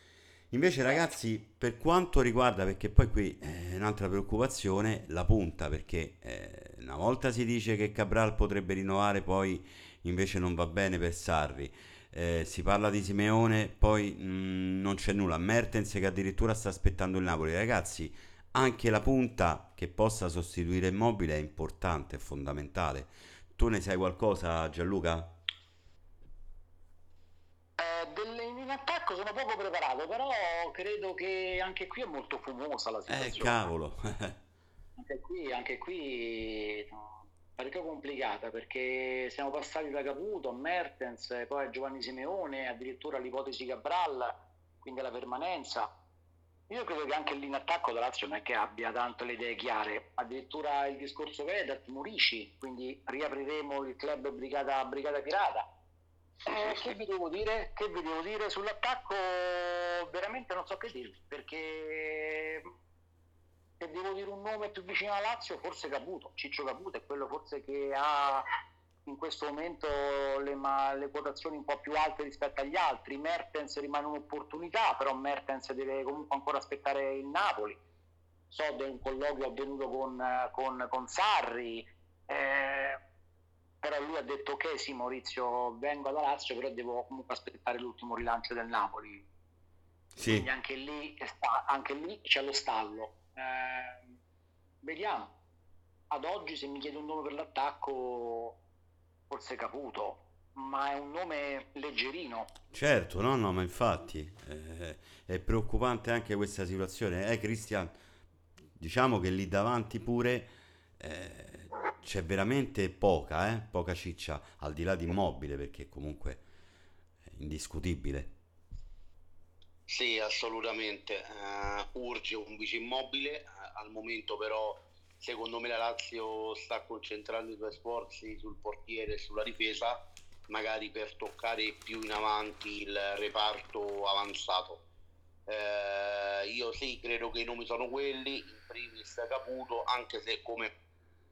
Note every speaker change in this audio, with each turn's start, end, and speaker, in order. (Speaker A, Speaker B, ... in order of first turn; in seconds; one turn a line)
Speaker A: 0.5-25.3
Speaker B: 27.8-33.7
Speaker A: 33.1-34.4
Speaker B: 35.0-45.9
Speaker B: 46.7-55.7
Speaker B: 56.5-62.7
Speaker B: 63.8-68.5
Speaker B: 69.1-77.8
Speaker B: 78.5-83.0
Speaker B: 83.8-89.2
Speaker A: 90.2-90.5
Speaker B: 90.2-94.2
Speaker B: 94.8-95.3
Speaker B: 96.1-98.6
Speaker B: 99.3-102.5
Speaker A: 102.7-107.9
Speaker A: 108.8-116.4
Speaker A: 117.3-118.3
Speaker C: 119.9-134.8
Speaker C: 135.5-140.7